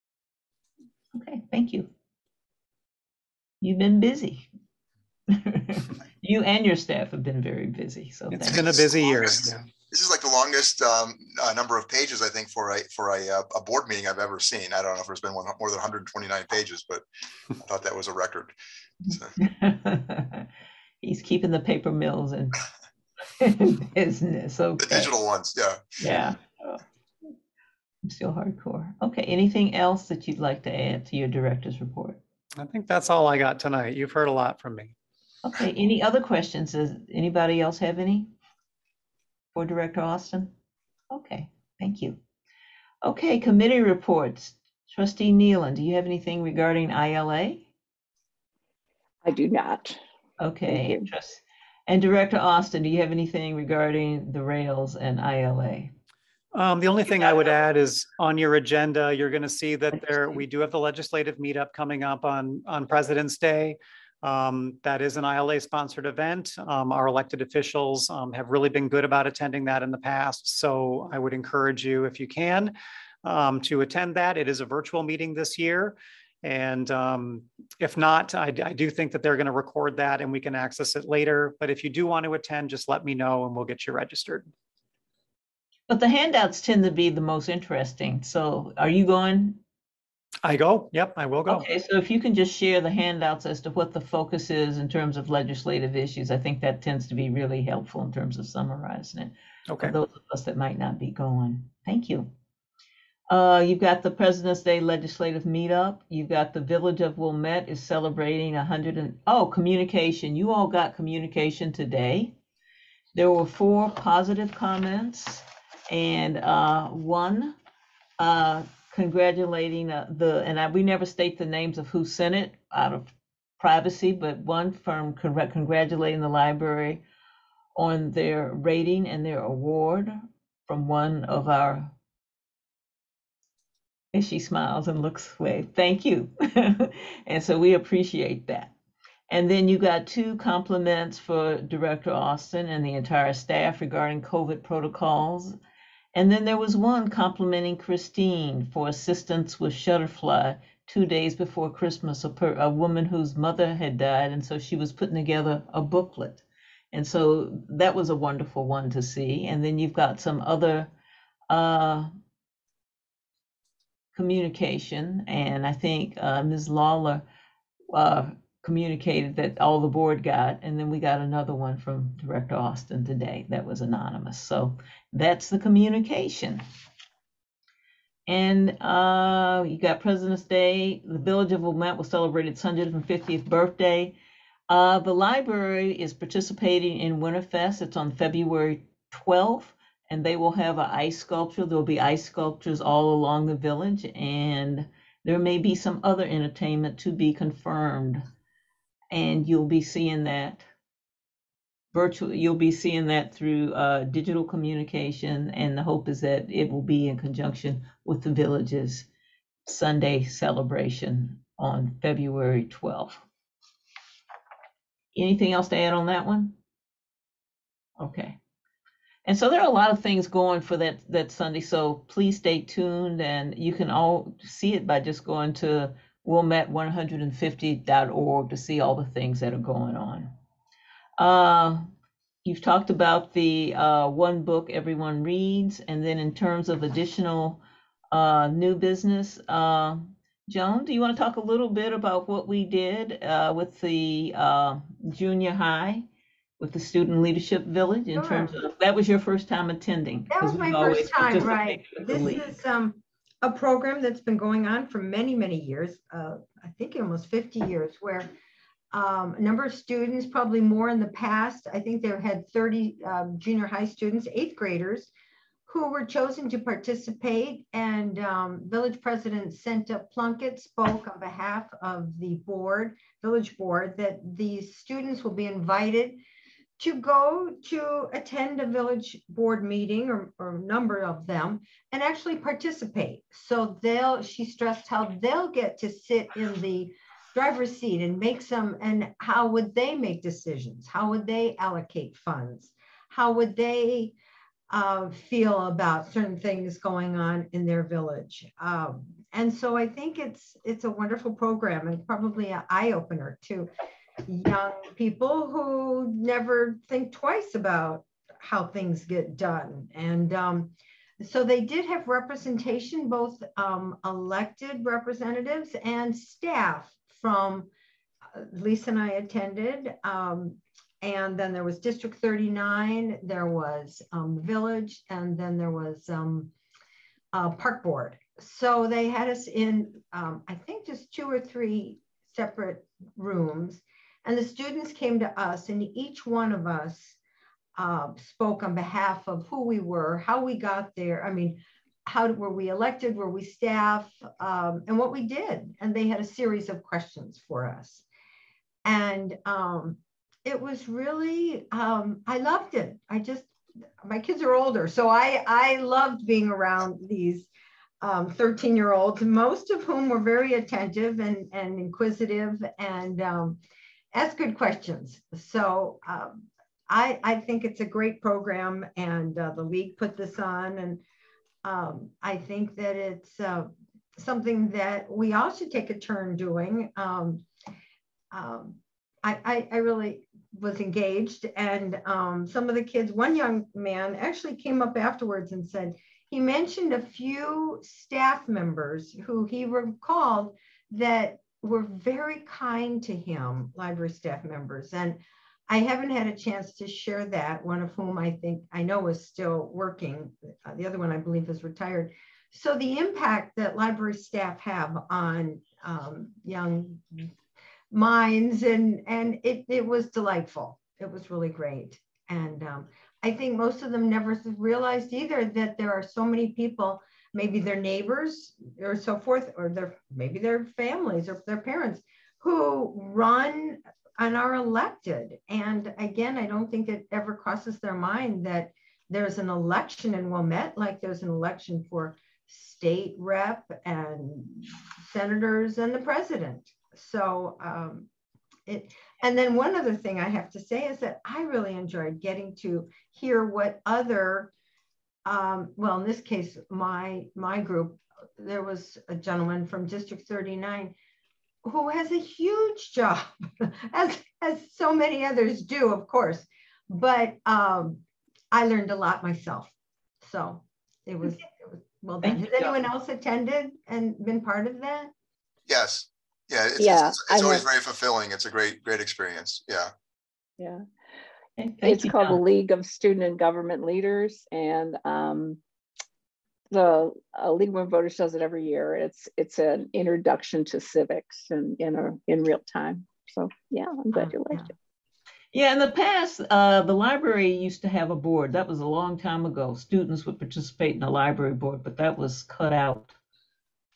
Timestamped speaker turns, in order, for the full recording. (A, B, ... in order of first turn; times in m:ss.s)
0:01.1-0:01.9 A
0:03.6-0:04.5 A
0:05.3-0:08.8 A
0:08.3-0:09.6 B
0:08.5-0:17.0 C
0:17.6-0:19.4 C
0:19.4-0:20.5 A
0:21.0-0:22.6 A
0:23.4-0:25.1 A
0:24.8-0:25.9 C
0:26.0-0:26.8 A
0:28.0-0:32.2 A
0:32.6-0:34.9 B
0:35.4-0:38.3 A
0:39.5-0:40.5 A
0:41.1-0:42.2 A
0:43.0-0:47.7 A
0:49.2-0:50.0 D
0:50.4-0:55.9 A
0:50.7-0:51.1 D
0:56.5-1:24.5 B
0:57.1-0:57.5 A
1:25.9-1:29.6 A
1:30.4-1:31.6 B
1:31.5-1:42.3 A
1:39.7-1:40.0 B
1:43.3-1:52.3 A
1:53.1-1:57.6 A
1:58.2-2:07.0 A
2:07.7-2:11.9 A
2:14.1-2:18.7 A
2:19.3-2:25.6 A
2:26.1-2:40.9 A
2:41.5-2:42.1 A
2:44.1-2:47.2 A
2:47.9-2:56.6 A
2:58.3-3:04.1 A
3:04.7-3:18.2 A
3:19.1-3:20.7 A
3:21.9-3:29.1 A
3:29.6-3:33.2 A
3:35.1-3:36.6 A
3:38.0-3:38.4 A
3:39.2-3:50.3 A
3:51.2-3:51.9 A
3:52.4-3:57.6 A
3:58.1-4:06.0 A
4:06.6-4:12.6 A
4:08.1-4:08.6 E
4:10.3-4:18.3 E
4:18.9-4:25.1 E
4:25.7-4:36.2 E
4:36.8-4:54.1 E
4:54.7-5:03.7 E
5:04.2-5:17.7 E
5:18.3-5:26.5 E
5:27.3-5:37.2 E
5:37.8-5:48.0 E
5:48.8-5:57.5 E
5:58.0-6:03.6 E
6:04.1-6:11.0 E
6:11.6-6:17.4 E
6:18.3-6:47.3 E
6:47.9-7:18.1 E
7:18.7-7:24.5 E
7:25.2-7:31.0 E
7:31.6-7:45.1 E
7:42.2-7:42.8 A
7:45.7-7:49.9 C
7:46.8-7:47.7 D
7:50.6-7:50.8 D
7:51.6-7:52.4 A
7:51.8-7:55.6 D
7:56.7-8:04.7 D
8:04.2-8:04.7 E
8:05.5-8:13.1 A